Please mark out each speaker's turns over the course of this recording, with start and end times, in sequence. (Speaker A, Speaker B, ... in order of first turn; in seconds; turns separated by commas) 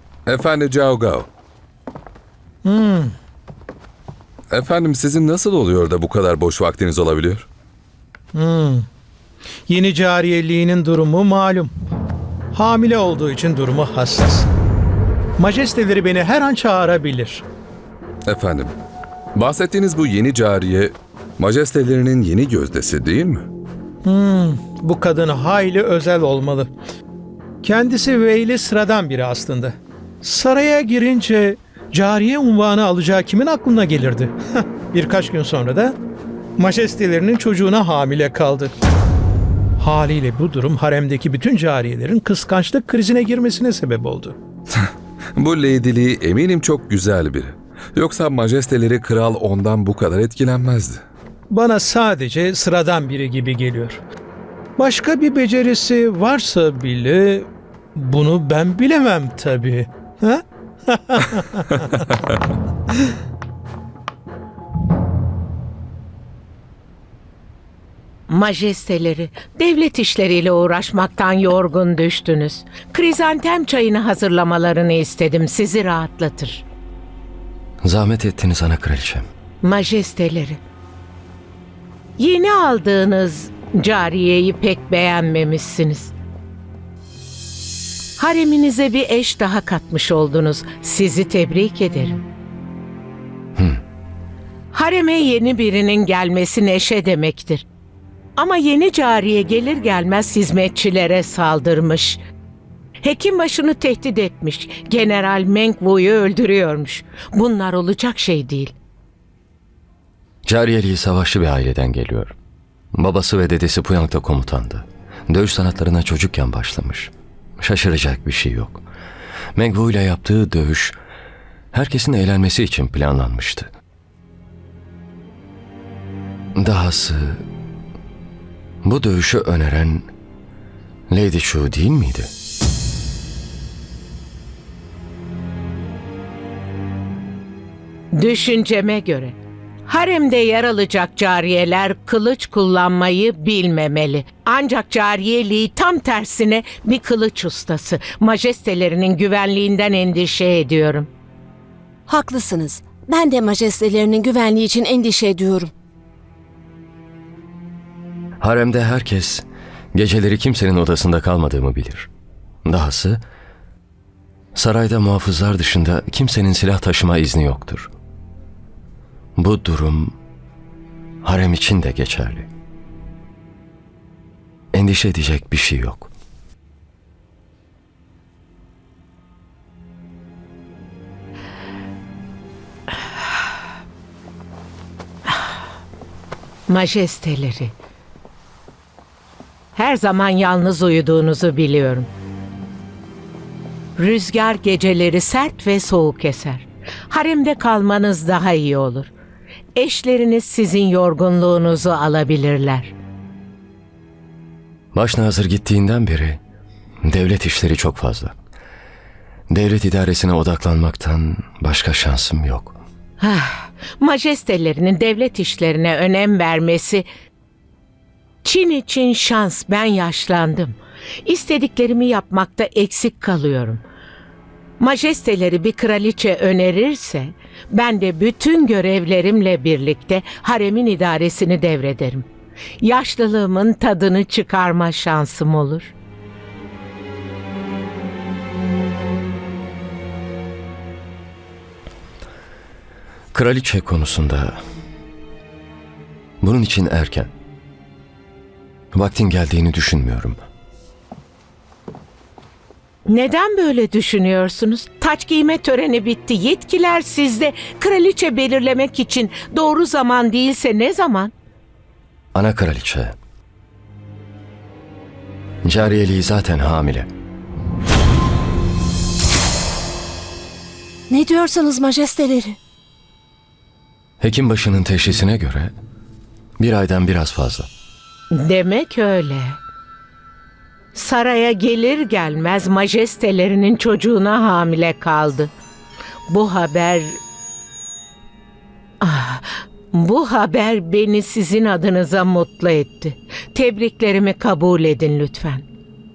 Speaker A: 0.2-1.3, Speaker B: 2.6-3.1, Speaker A: 4.5-7.5, Speaker B: 8.3-8.9, Speaker B: 9.7-11.7, Speaker B: 12.5-14.5, Speaker B: 15.4-17.4, Speaker A: 18.2-18.8, Speaker A: 19.3-23.4, Speaker B: 24.1-26.7, Speaker B: 27.6-36.0, Speaker B: 36.6-38.8, Speaker B: 39.8-44.4, Speaker A: 44.7-51.0, Speaker B: 51.5-54.0, Speaker B: 54.8-61.6, Speaker C: 68.3-76.6, Speaker D: 77.8-79.3, Speaker C: 79.6-80.6, Speaker C: 82.2-86.1, Speaker C: 88.2-92.2, Speaker C: 94.7-97.7, Speaker C: 98.4-102.2, Speaker C: 103.0-108.7, Speaker D: 110.5-112.4, Speaker D: 112.9-118.8, Speaker D: 119.5-121.0, Speaker D: 121.7-123.7, Speaker D: 126.6-127.4, Speaker D: 128.8-130.1, Speaker D: 131.1-132.3, Speaker C: 138.2-151.1, Speaker E: 152.1-155.7, Speaker D: 158.4-162.1, Speaker D: 162.6-163.2, Speaker D: 164.5-167.9, Speaker D: 169.4-170.2, Speaker D: 171.2-172.5, Speaker D: 174.7-176.1, Speaker C: 186.7-187.7, Speaker C: 189.8-192.1, Speaker C: 194.0-199.1, Speaker C: 199.8-202.9, Speaker D: 204.9-206.4, Speaker D: 207.0-208.3, Speaker D: 209.5-212.8, Speaker C: 213.2-217.1, Speaker C: 218.4-223.8, Speaker C: 224.8-232.3, Speaker C: 232.8-235.9, Speaker D: 243.3-244.6, Speaker D: 246.4-247.3, Speaker D: 248.9-250.4, Speaker C: 253.1-261.3, Speaker D: 262.3-263.1, Speaker D: 265.6-267.1, Speaker E: 271.1-272.6, Speaker D: 274.2-275.7, Speaker D: 276.6-277.7, Speaker C: 278.3-279.6, Speaker C: 280.9-285.5, Speaker C: 286.3-287.2, Speaker C: 289.0-295.6